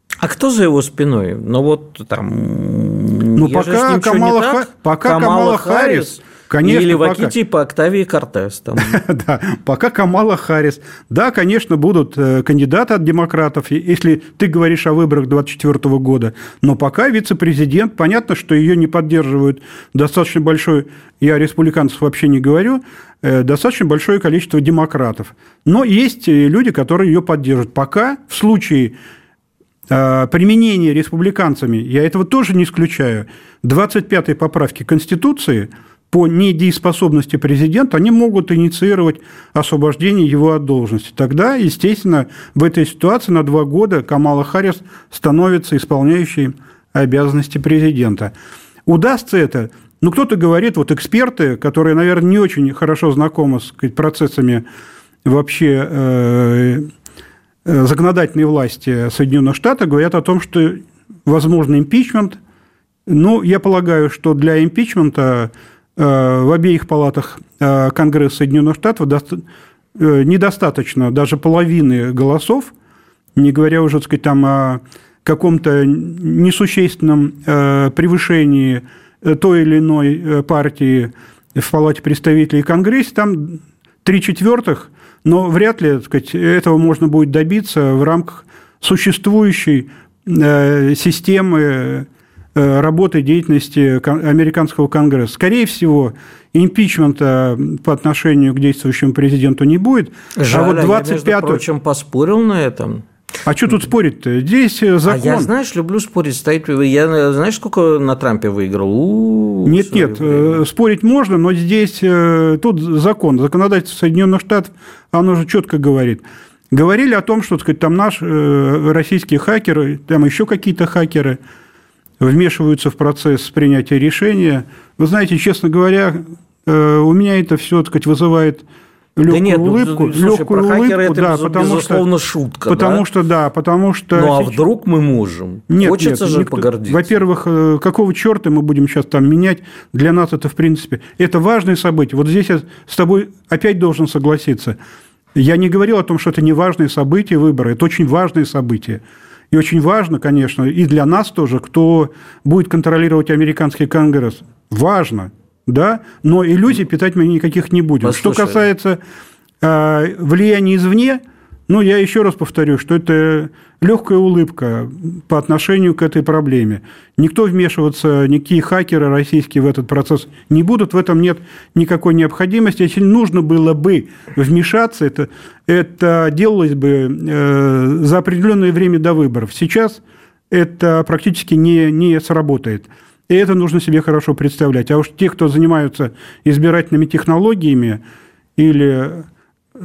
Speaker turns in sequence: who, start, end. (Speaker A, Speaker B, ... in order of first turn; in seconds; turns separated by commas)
Speaker A: 0.2-9.0, Speaker B: 3.4-7.3, Speaker B: 8.8-28.9, Speaker B: 29.9-48.3, Speaker B: 48.9-54.6, Speaker B: 55.2-56.9, Speaker B: 57.6-62.4, Speaker B: 63.0-69.4, Speaker B: 70.0-72.7, Speaker B: 73.4-101.6, Speaker A: 100.4-103.0, Speaker B: 103.5-105.5, Speaker A: 105.1-110.6, Speaker B: 109.7-121.4, Speaker B: 122.2-128.6, Speaker B: 129.2-132.0, Speaker A: 129.3-133.0, Speaker B: 132.7-134.6, Speaker A: 134.1-137.2, Speaker B: 135.7-144.8, Speaker B: 145.3-159.0, Speaker A: 158.0-158.6, Speaker B: 159.6-188.0, Speaker B: 188.6-189.2